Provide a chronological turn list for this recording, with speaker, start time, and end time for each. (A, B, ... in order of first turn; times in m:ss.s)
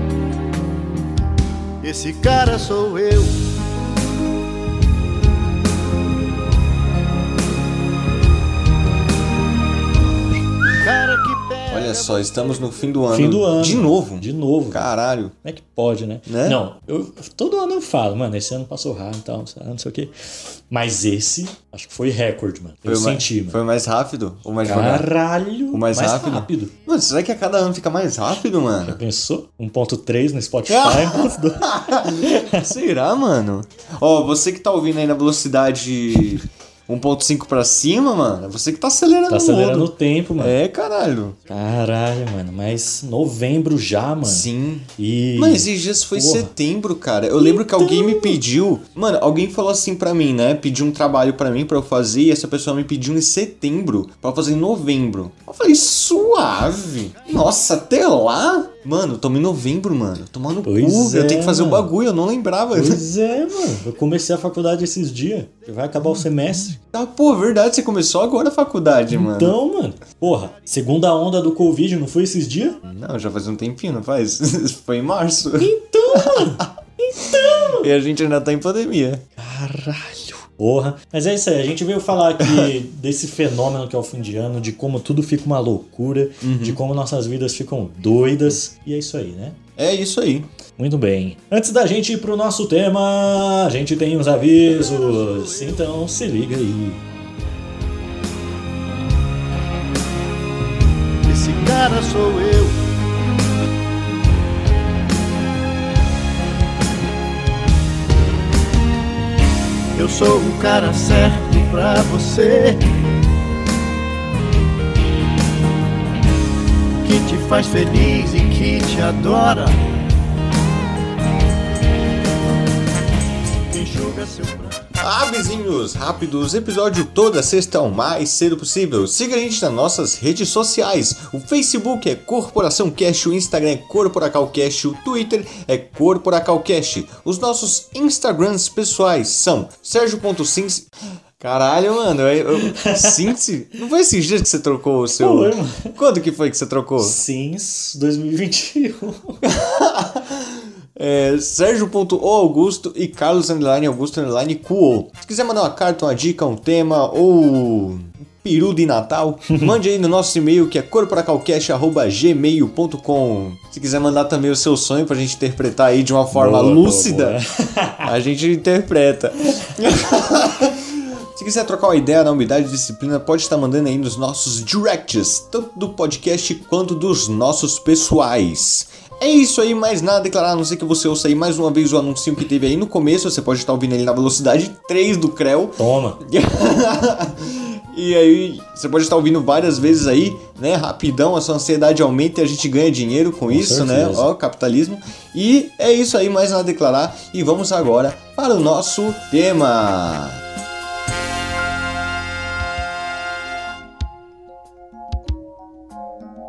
0:01.8-0:03.4 A
0:10.8-0:12.2 A
0:11.7-0:15.3 B
0:13.1-0:14.9 C
0:15.4-0:23.6 C
0:16.3-0:16.6 B
0:22.8-0:25.1 B
0:24.6-0:26.7 C
0:25.7-0:29.0 B
0:28.8-0:32.7 C
0:30.7-0:41.4 B
0:39.3-0:40.6 C
0:41.5-0:46.5 C
0:44.2-1:03.0 B
0:47.4-0:48.4 C
1:00.6-1:01.9 C
1:02.7-1:06.8 C
1:06.9-1:09.6 B
1:09.1-1:12.8 C
1:12.8-1:16.7 B
1:15.6-1:17.9 C
1:17.3-1:19.2 B
1:19.4-1:29.6 C
1:22.4-1:22.7 B
1:26.4-1:26.8 B
1:29.8-1:30.5 B
1:30.8-1:37.0 C
1:41.3-1:42.8 A
1:49.9-1:52.8 A
1:57.0-1:59.8 A
2:03.7-2:04.6 A
2:04.9-2:27.2 B
2:22.6-2:23.3 C
2:25.2-2:26.0 C
2:27.0-2:29.4 C
2:29.4-2:47.4 B
2:39.5-2:39.8 C
2:46.3-2:48.1 C
2:48.0-3:20.4 B
3:05.8-3:06.2 C
3:13.5-3:14.3 C